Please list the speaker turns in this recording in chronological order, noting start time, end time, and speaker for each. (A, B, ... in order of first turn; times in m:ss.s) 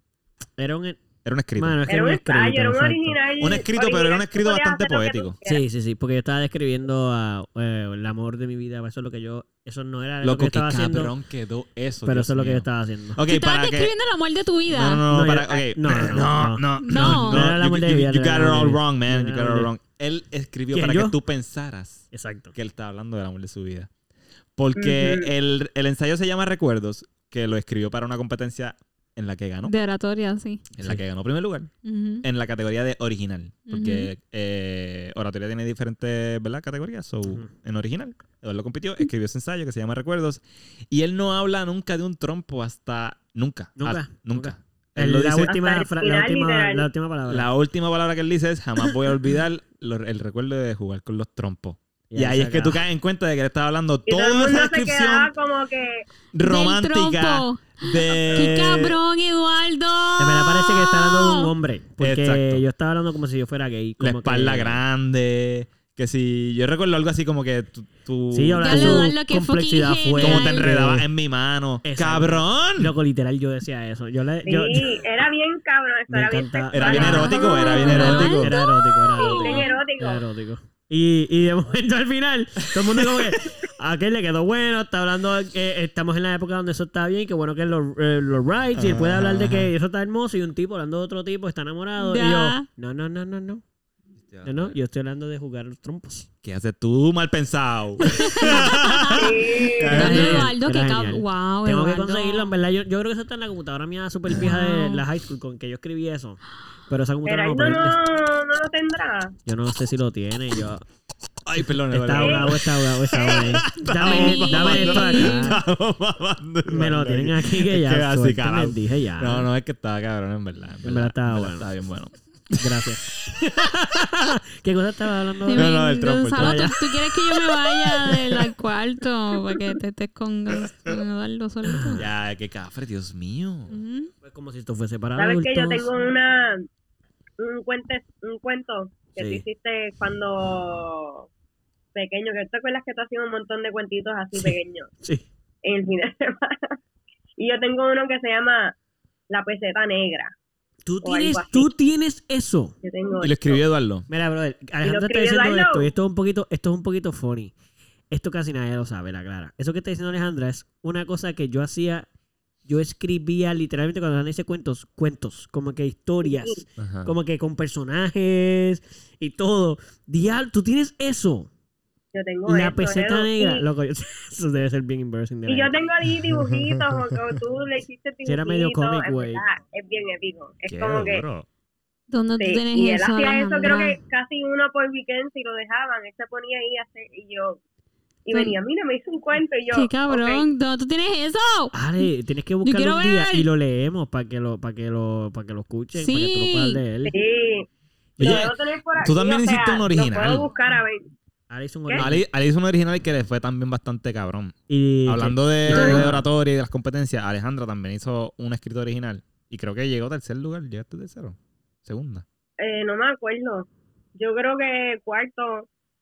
0:00.6-0:01.0 A
0:01.2-0:01.8 B
0:01.6-0:03.2 A
0:01.9-0:05.6 C
0:03.4-0:05.4 B
0:05.4-0:11.1 A
0:10.2-0:13.9 B
0:12.0-0:13.2 A
0:13.3-0:15.0 D
0:14.7-0:23.9 B
0:15.1-0:19.7 A
0:16.8-0:17.5 D
0:20.7-0:21.2 A
0:22.1-0:22.5 A
0:24.6-0:29.7 B
0:24.8-0:25.3 C
0:29.7-0:30.6 D
0:30.8-0:31.7 B
0:31.8-0:32.2 D
0:32.2-0:45.5 B
0:33.7-0:34.1 D
0:43.8-0:47.5 A
0:45.4-0:46.9 C
0:47.3-0:55.3 B
0:52.1-0:52.8 A
0:54.1-0:56.1 C
0:56.3-0:59.0 B
0:56.4-1:01.5 D
1:00.2-1:04.8 A
1:02.0-1:02.6 B
1:04.0-1:09.1 B
1:08.3-1:11.1 A
1:08.6-1:10.7 D
1:10.2-1:12.9 B
1:11.8-1:14.9 A
1:14.4-1:20.2 C
1:16.1-1:33.6 A
1:16.7-1:18.5 B
1:16.9-1:19.6 D
1:22.8-1:23.3 B
1:28.8-1:29.7 B
1:32.0-1:32.7 D
1:34.3-1:34.8 B
1:34.4-1:36.3 A
1:36.4-1:40.5 B
1:38.1-1:39.3 D
1:38.2-1:38.6 A
1:39.1-1:40.2 C
1:39.9-1:42.5 D
1:39.9-1:48.0 A
1:44.3-1:45.0 D
1:47.2-1:49.4 C
1:49.5-1:50.8 A
1:51.4-1:52.6 B
1:51.6-1:55.6 A
1:52.2-1:52.5 C
1:53.1-1:53.6 C
1:53.1-2:02.6 B
1:53.9-1:55.6 D
1:56.7-1:59.5 A
2:00.8-2:01.7 A
2:02.6-2:05.8 A
2:05.5-2:12.0 D
2:05.5-2:06.7 B
2:06.3-2:08.2 A
2:11.7-2:12.1 A
2:12.0-2:13.8 B
2:13.7-2:14.1 D
2:14.2-2:15.9 A
2:15.2-2:16.7 C
2:17.4-2:21.3 C
2:19.2-2:19.4 A
2:22.0-2:24.9 C
2:24.3-2:25.3 A
2:25.6-2:26.8 C
2:27.4-2:28.7 C
2:29.3-2:30.3 C
2:30.9-2:32.8 A
2:31.0-2:31.7 C
2:32.8-2:33.6 C
2:33.2-2:34.1 B
2:34.1-2:37.5 A
2:34.8-2:35.9 C
2:38.1-2:42.1 A
2:42.7-2:51.5 A
2:46.2-2:46.6 C
2:46.8-2:47.1 B
2:52.1-2:53.6 C
2:52.5-2:55.7 A
2:55.5-3:01.2 C
2:56.2-2:57.2 B
2:58.2-2:59.4 A
3:00.7-3:01.5 B
3:02.1-3:04.0 D
3:02.4-3:07.6 C
3:08.2-3:10.5 C
3:08.3-3:08.6 D
3:09.7-3:12.1 D
3:11.7-3:17.1 A
3:12.6-3:13.5 D
3:16.0-3:16.8 D
3:17.0-3:21.0 C
3:18.2-3:20.5 B
3:21.5-3:22.2 A
3:22.0-3:32.2 B
3:24.7-3:26.3 A
3:25.7-3:26.0 C
3:32.6-3:35.7 C